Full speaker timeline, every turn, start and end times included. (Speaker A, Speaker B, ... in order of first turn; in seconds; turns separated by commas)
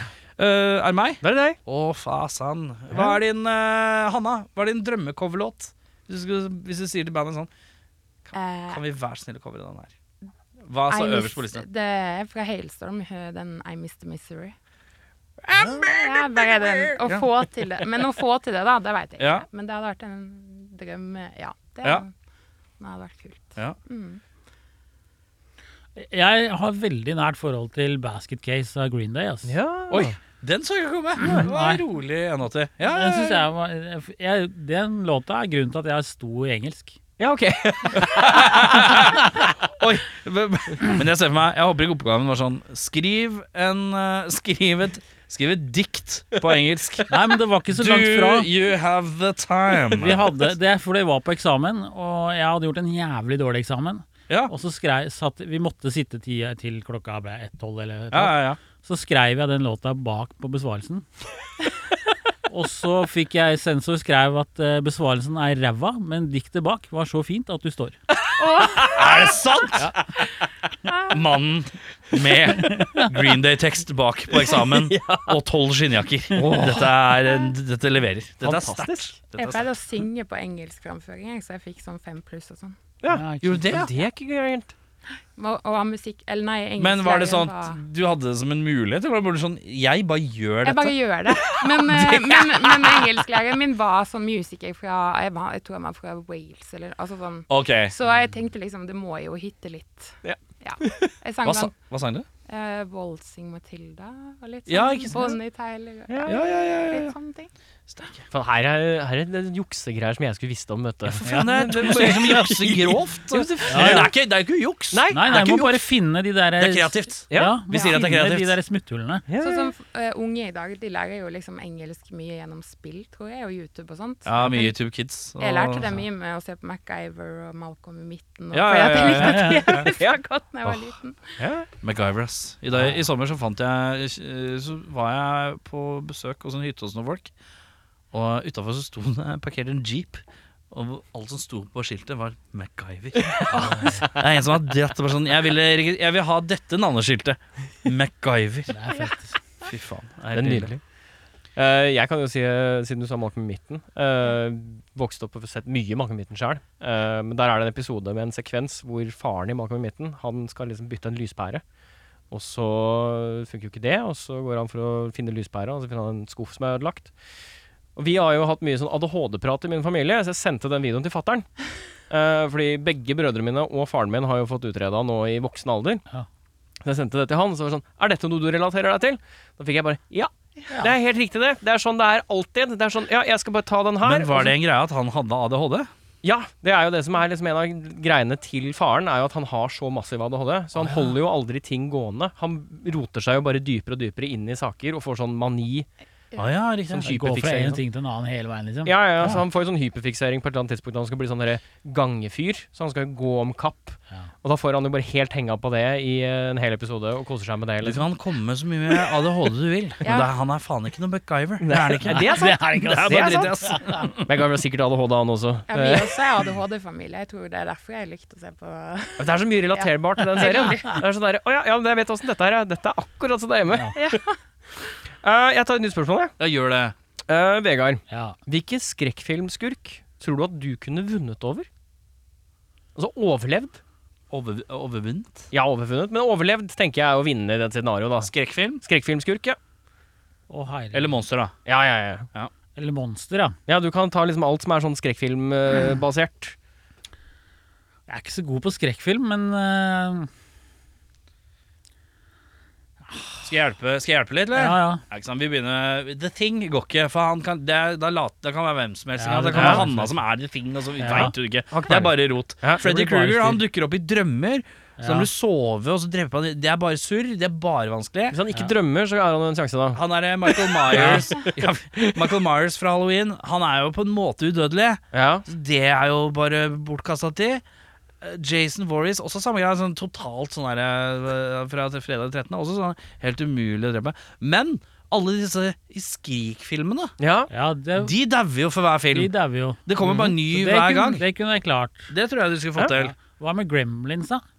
Speaker A: 0.4-7.5, Speaker B: 1.2-1.6, Speaker C: 8.3-8.8, Speaker A: 8.7-9.9, Speaker A: 10.6-11.7, Speaker C: 10.9-14.5, Speaker A: 15.4-17.3, Speaker C: 15.6-22.1, Speaker A: 19.2-19.5, Speaker C: 22.8-24.2, Speaker D: 26.0-29.6, Speaker B: 29.4-30.1, Speaker A: 29.9-33.5, Speaker B: 31.2-31.5, Speaker D: 31.3-31.8, Speaker D: 32.9-37.0, Speaker B: 37.2-39.0, Speaker A: 38.0-47.2, Speaker D: 47.1-48.5, Speaker A: 47.7-50.3, Speaker D: 49.9-61.1, Speaker A: 58.1-58.6, Speaker D: 62.5-68.0, Speaker C: 68.4-68.9, Speaker A: 68.8-69.9, Speaker A: 71.0-79.7, Speaker B: 74.8-75.3, Speaker B: 76.3-76.9, Speaker B: 78.4-79.2, Speaker C: 79.4-82.8, Speaker B: 83.0-84.7, Speaker D: 83.1-83.7, Speaker A: 83.4-83.9, Speaker C: 85.3-87.8, Speaker A: 86.8-92.7, Speaker C: 90.7-101.8, Speaker A: 97.5-97.9, Speaker B: 100.2-101.1, Speaker A: 101.4-102.3, Speaker C: 102.5-107.5, Speaker A: 104.7-105.3, Speaker B: 106.1-106.5, Speaker A: 106.2-107.2, Speaker A: 107.9-108.2, Speaker B: 108.3-114.1, Speaker A: 111.1-115.8, Speaker D: 111.2-112.4, Speaker D: 113.7-114.1, Speaker B: 114.9-115.7, Speaker D: 115.1-119.3, Speaker A: 116.6-118.6, Speaker B: 117.3-117.6, Speaker B: 119.3-119.7, Speaker C: 119.4-131.4, Speaker A: 124.3-125.8, Speaker A: 128.5-129.9, Speaker D: 129.2-129.6, Speaker B: 129.9-131.7, Speaker A: 131.8-137.3, Speaker A: 138.1-148.8, Speaker B: 143.3-144.2, Speaker D: 148.7-149.3, Speaker A: 149.6-150.7, Speaker B: 150.3-150.8, Speaker B: 151.6-161.6, Speaker B: 162.3-167.1, Speaker B: 168.0-171.5, Speaker B: 172.1-176.0, Speaker B: 176.8-184.6, Speaker A: 184.0-185.9, Speaker B: 186.2-195.9, Speaker D: 190.8-191.1, Speaker A: 196.4-197.3, Speaker B: 196.9-197.8, Speaker D: 197.0-199.4, Speaker B: 198.8-208.1, Speaker A: 207.8-214.2, Speaker C: 210.0-210.3, Speaker B: 211.6-213.5, Speaker D: 212.1-214.0, Speaker B: 214.2-216.2, Speaker C: 215.7-221.0, Speaker B: 219.2-224.2, Speaker C: 223.9-224.4, Speaker B: 225.2-226.3, Speaker A: 226.4-226.9, Speaker B: 227.3-231.7, Speaker D: 228.1-228.4, Speaker B: 233.0-233.8, Speaker A: 234.3-235.5, Speaker B: 235.5-238.3, Speaker A: 238.3-238.8, Speaker B: 238.8-239.6, Speaker D: 240.5-241.2, Speaker A: 240.9-241.5, Speaker B: 241.7-242.3, Speaker D: 242.8-243.6, Speaker B: 243.7-246.6, Speaker D: 248.1-250.3, Speaker A: 253.4-268.4, Speaker D: 254.6-255.0, Speaker D: 259.2-260.2, Speaker B: 259.5-259.9, Speaker D: 261.0-261.3, Speaker B: 261.1-263.6, Speaker D: 265.0-265.3, Speaker B: 268.3-272.4, Speaker A: 269.9-277.6, Speaker D: 270.9-271.2, Speaker B: 275.1-275.5, Speaker A: 278.2-287.1, Speaker B: 287.2-287.5, Speaker D: 287.5-288.1, Speaker A: 288.0-289.3, Speaker D: 289.1-292.1, Speaker A: 289.9-291.2, Speaker B: 290.0-290.3, Speaker A: 292.1-293.2, Speaker D: 292.9-294.4